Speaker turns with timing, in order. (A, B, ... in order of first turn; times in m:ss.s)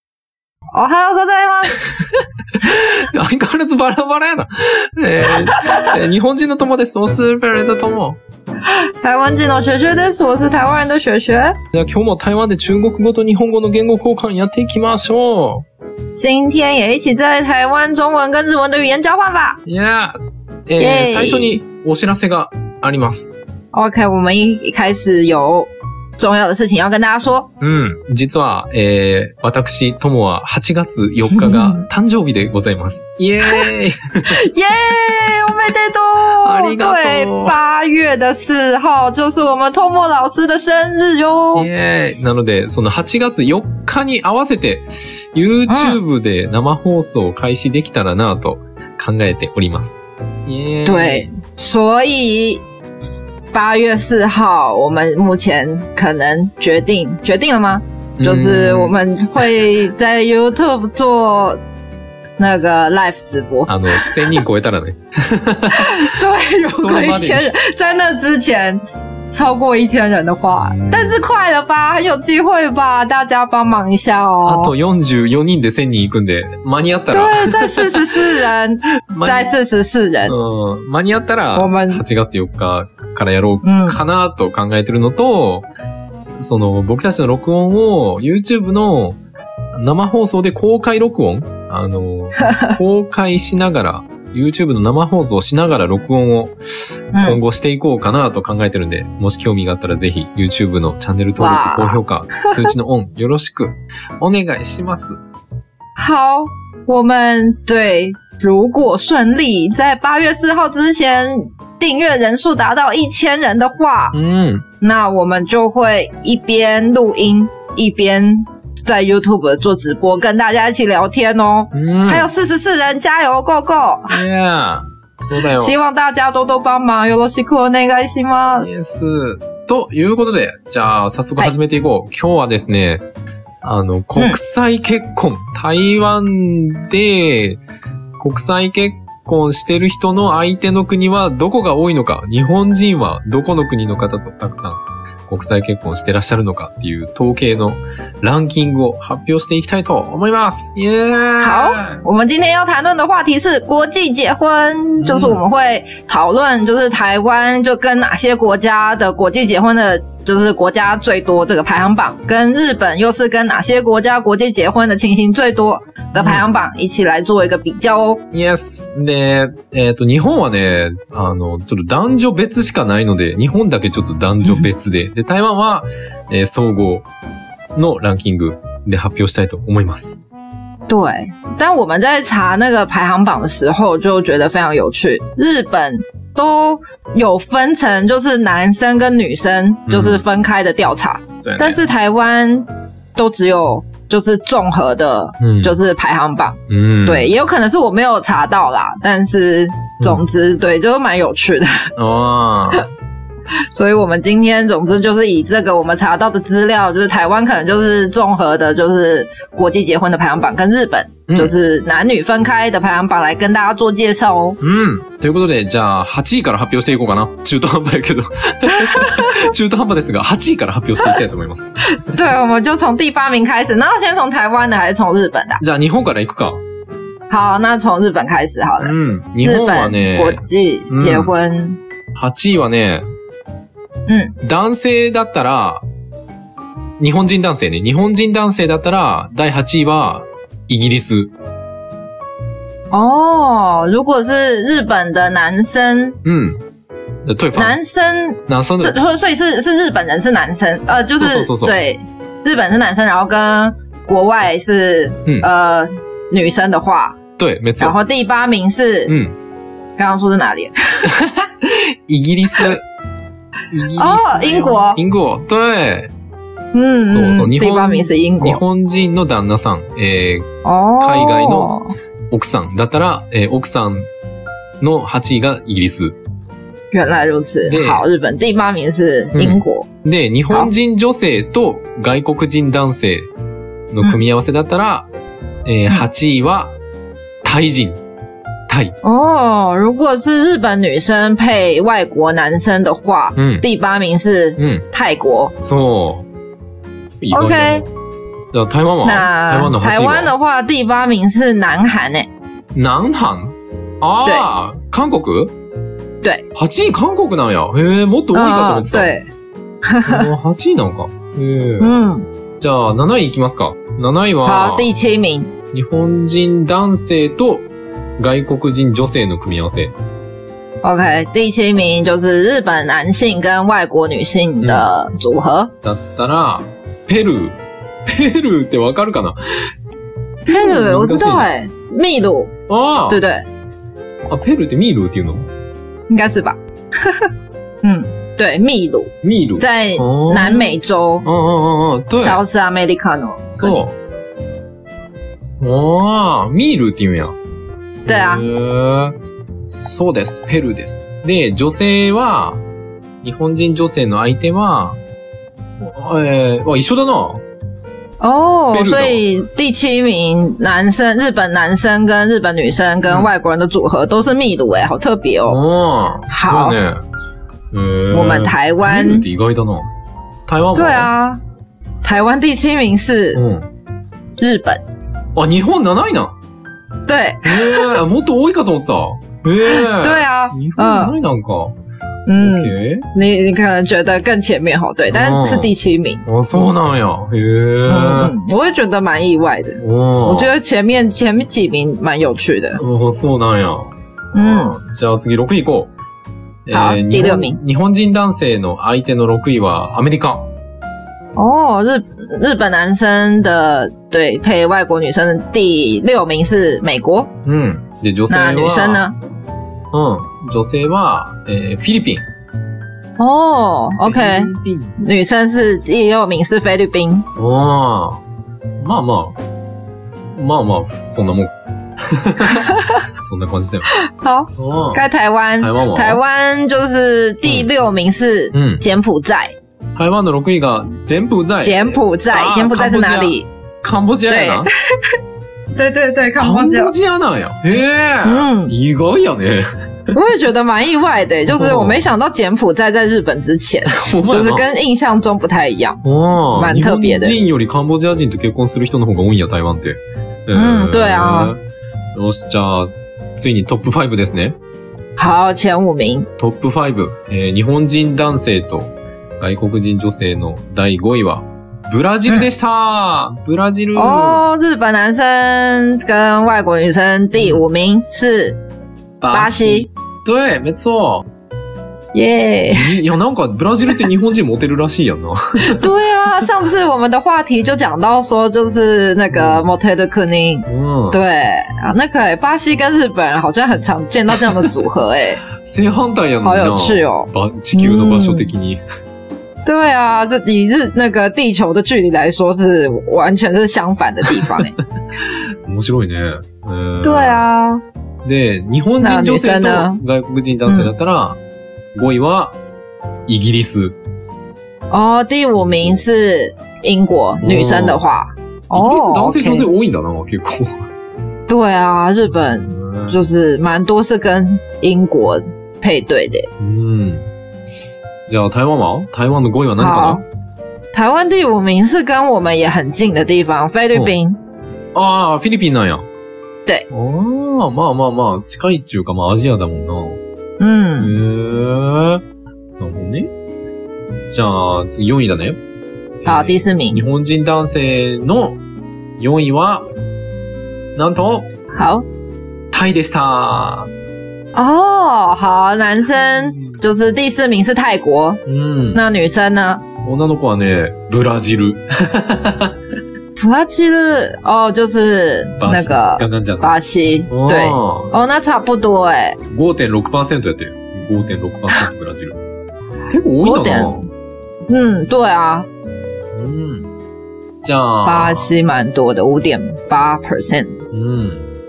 0:00.7-0:02.2 A
0:02.5-0:08.2 B
0:05.3-0:05.9 A
0:08.6-0:11.6 A
0:11.7-0:15.6 B
0:16.2-0:19.6 A
0:19.6-0:23.3 B
0:20.8-0:21.6 A
0:23.7-0:27.5 A
0:27.6-0:34.4 B
0:31.3-0:31.8 A
0:34.2-0:41.7 A
0:36.4-0:37.6 B
0:41.5-0:51.3 B
0:45.7-0:46.0 A
0:50.8-0:52.6 A
0:53.5-1:01.6 A
0:58.2-0:59.0 B
1:02.4-1:04.4 A
1:03.6-1:07.5 B
1:05.7-1:14.7 A
1:10.6-1:11.3 B
1:14.4-1:18.2 B
1:17.1-1:20.3 A
1:19.1-1:19.5 B
1:20.2-1:25.7 B
1:21.6-1:22.0 A
1:23.6-1:24.0 A
1:26.4-1:29.2 B
1:29.7-1:36.5 B
1:32.4-1:32.7 A
1:37.1-1:37.4 A
1:37.2-1:45.2 B
1:41.4-1:42.0 A
1:46.0-1:54.1 A
1:54.1-1:54.6 B
1:54.8-2:04.2 A
2:01.7-2:02.3 B
2:04.1-2:05.8 B
2:05.5-2:08.8 A
2:08.6-2:13.0 B
2:13.6-2:17.6 B
2:18.2-2:32.0 B
2:31.4-2:48.2 A
2:35.0-2:35.4 B
2:46.2-2:46.4 B
2:48.3-2:57.0 B
2:57.7-3:00.2 B
3:00.9-3:21.9 A
3:09.9-3:10.2 B
3:11.3-3:11.8 B
3:15.4-3:15.8 B
3:16.7-3:17.3 B
3:20.0-3:20.2 B
3:22.0-3:22.9 B
3:23.7-3:34.6 A
3:31.3-3:31.5 B
3:34.6-3:41.8 B
3:38.8-3:39.4 A
3:41.8-3:45.6 A
3:45.6-3:46.6 B
3:47.3-3:51.8 A
3:48.8-3:51.3 B
3:52.1-3:53.0 B
3:54.1-3:54.4 A
3:54.4-3:55.8 B
3:57.0-4:01.3 B
4:02.9-4:06.2 A
4:06.2-4:06.6 B
4:07.2-4:07.8 B
4:07.5-4:17.2 A
4:08.5-4:09.0 B
4:11.1-4:11.8 B
4:17.4-4:18.0 B
4:17.8-4:19.1 A
4:19.1-4:19.3 B
4:20.0-4:21.1 A
4:21.0-4:22.8 B
4:23.7-4:26.1 B
4:23.9-4:25.0 A
4:26.7-4:28.6 A
4:27.1-4:31.7 B
4:30.6-4:31.9 A
4:32.3-4:34.0 B
4:34.8-4:36.2 B
4:36.9-4:39.9 A
4:37.6-4:38.0 B
4:39.3-4:43.3 B
4:43.9-4:45.1 B
4:45.6-4:46.7 B
4:47.4-4:48.0 B
4:48.7-4:49.0 B
4:49.0-4:55.5 A
4:53.4-4:53.6 B
4:54.6-4:54.8 B
4:55.6-4:56.3 B
4:57.2-4:57.9 B
4:57.3-4:57.8 A
4:58.5-5:00.3 B
4:59.0-5:02.3 A
5:02.7-5:05.5 B
5:06.5-5:09.1 B
5:08.3-5:09.3 A
5:09.8-5:10.3 A
5:10.0-5:12.0 B
5:11.8-5:12.3 A
5:12.6-5:14.9 B
5:14.4-5:15.5 A
5:15.7-5:17.7 B
5:18.2-5:19.9 B
5:20.8-5:25.7 A
5:24.6-5:24.9 B
5:25.8-5:29.7 B
5:30.4-5:32.5 A
5:30.5-5:31.5 B
5:32.7-5:33.2 B
5:33.1-5:33.5 A
5:34.3-5:35.5 B
5:36.1-5:37.3 A
5:37.8-5:41.2 A
5:39.2-5:42.4 B
5:42.2-5:43.8 A
5:43.5-5:44.0 B
5:45.6-5:47.4 B
5:48.0-5:48.4 A
5:48.0-5:52.6 B
5:53.2-5:55.0 B
5:55.8-5:57.4 B
5:58.2-6:05.6 A
5:58.7-5:59.2 B
6:05.4-6:07.0 B
6:06.3-6:06.8 A
6:07.7-6:09.9 B
6:08.1-6:09.2 A
6:10.5-6:11.1 B
6:10.7-6:11.4 A
6:12.0-6:13.4 A
6:13.3-6:13.6 B
6:14.4-6:14.8 A
6:15.3-6:16.3 B
6:17.1-6:18.0 A
6:17.4-6:21.7 B
6:19.6-6:21.1 A
6:22.2-6:26.2 A
6:22.4-6:23.1 B
6:25.1-6:25.7 B
6:26.2-6:28.3 B
6:27.9-6:32.8 A
6:29.8-6:30.5 B
6:32.8-6:35.9 B
6:34.3-6:34.8 A
6:36.6-6:40.5 B
6:36.7-6:37.6 A
6:41.4-6:47.3 A
6:47.4-6:49.1 B
6:48.3-6:49.1 A
6:49.9-6:52.2 B
6:53.2-6:57.3 A
6:54.0-6:55.0 B
6:57.4-6:58.2 B
6:58.8-6:59.4 B
7:00.3-7:03.9 B
7:02.5-7:02.8 A
7:03.9-7:09.5 A
7:04.6-7:05.0 B
7:05.6-7:06.2 B
7:08.5-7:08.8 B
7:10.0-7:14.7 B
7:11.6-7:13.5 A
7:14.3-7:15.2 A
7:15.7-7:16.9 A
7:16.4-7:19.7 B
7:18.2-7:18.7 A
7:20.1-7:26.0 A
7:21.4-7:22.1 B
7:23.8-7:24.7 B
7:26.0-7:31.6 B
7:26.5-7:27.4 A
7:30.5-7:31.5 A
7:32.1-7:34.6 B
7:35.2-7:36.3 A
7:36.4-7:44.4 B
7:43.9-7:48.6 A
7:47.4-7:47.6 B
7:49.2-7:51.2 B
7:49.3-7:49.9 A
7:52.1-7:53.0 A
7:52.7-7:55.8 B
7:55.6-8:05.4 A
7:59.3-7:59.6 B
8:00.7-8:01.2 B
8:05.6-8:08.8 B
8:06.4-8:08.5 A
8:09.6-8:14.7 A
8:15.2-8:17.4 B
8:17.0-8:17.8 A
8:18.2-8:21.4 B
8:19.0-8:20.0 A
8:20.6-8:20.9 A
8:21.9-8:22.5 B
8:23.3-8:24.0 B
8:24.9-8:29.7 A
8:27.4-8:28.0 B
8:28.7-8:30.8 B
8:31.5-8:36.5 A
8:32.6-8:33.2 B
8:36.6-8:37.3 B
8:38.3-8:40.2 B
8:39.8-8:40.2 A
8:40.9-8:44.4 A
8:44.9-8:46.0 B
8:46.9-8:50.2 B
8:50.6-8:51.1 A
8:51.0-8:52.2 B
8:52.8-8:53.3 B
8:54.2-8:55.6 B
8:56.2-8:58.6 B
8:56.2-8:57.0 A
8:59.2-8:59.9 B
9:01.0-9:01.5 B
9:01.7-9:02.0 A
9:02.7-9:03.9 B
9:04.5-9:08.4 A
9:08.4-9:09.0 B
9:08.9-9:09.8 A
9:10.0-9:12.7 B
9:13.4-9:19.4 A
9:15.6-9:16.7 B
9:17.3-9:18.1 B
9:19.4-9:22.4 B
9:23.1-9:24.1 B
9:23.4-9:24.0 A
9:24.7-9:25.7 A
9:26.3-9:26.9 B
9:27.6-9:28.5 B
9:28.0-9:30.8 A
9:30.9-9:31.5 B